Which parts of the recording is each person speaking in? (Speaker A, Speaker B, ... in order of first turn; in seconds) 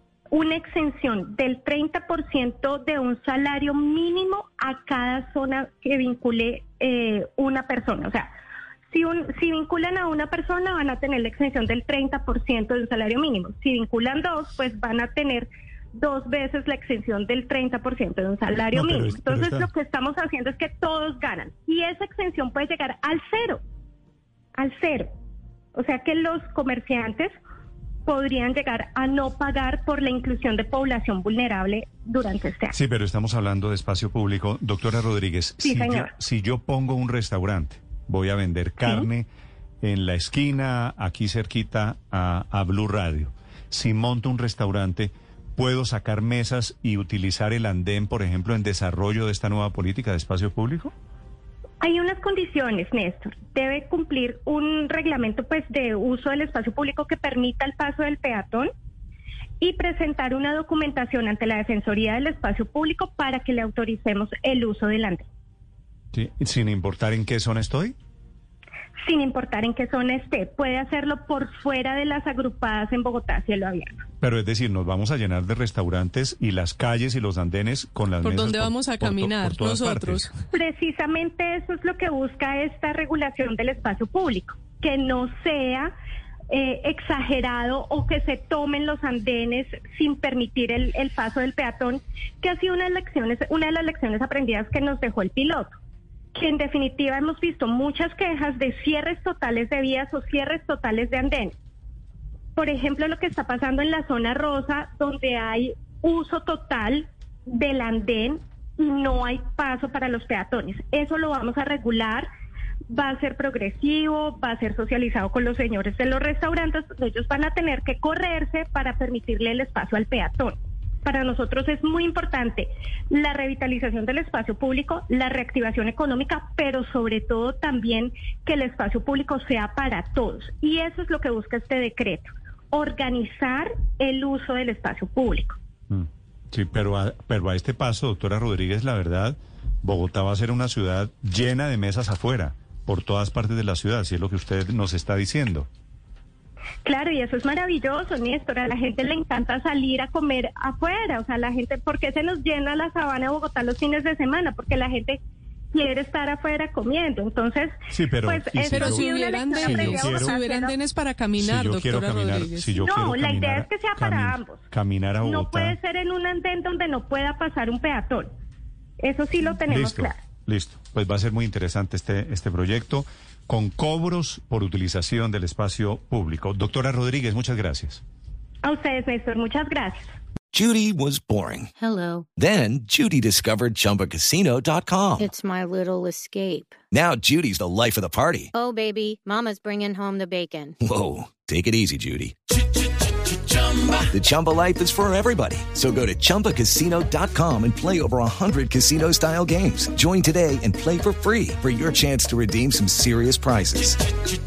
Speaker A: 0.3-8.3, 8.9-23.6, 24.6-25.1, 25.8-27.4, 28.1-32.8, 35.6-36.1, 51.8-58.7, 59.6-65.3, 69.0-74.0, 80.5-85.9, 86.5-95.8, 96.3-101.5, 102.5-112.3, 112.9-135.6, 146.8-155.2, 155.7-157.7, 158.3-160.8, 162.8-164.6, 165.2-168.3, 169.0-170.1, 178.6-180.1
Speaker B: 18.7-19.7, 32.7-39.3, 39.8-50.9, 66.1-68.0, 74.2-80.3, 135.9-145.7, 157.9-159.1, 159.6-160.3, 161.4-165.8, 169.7-178.0
Speaker C: 78.2-80.3, 158.7-162.8
Speaker D: 180.5-181.7, 182.3-185.3, 186.9-188.5, 190.8-192.3, 194.1-204.1
Speaker E: 181.8-182.3, 185.2-186.8, 188.5-190.8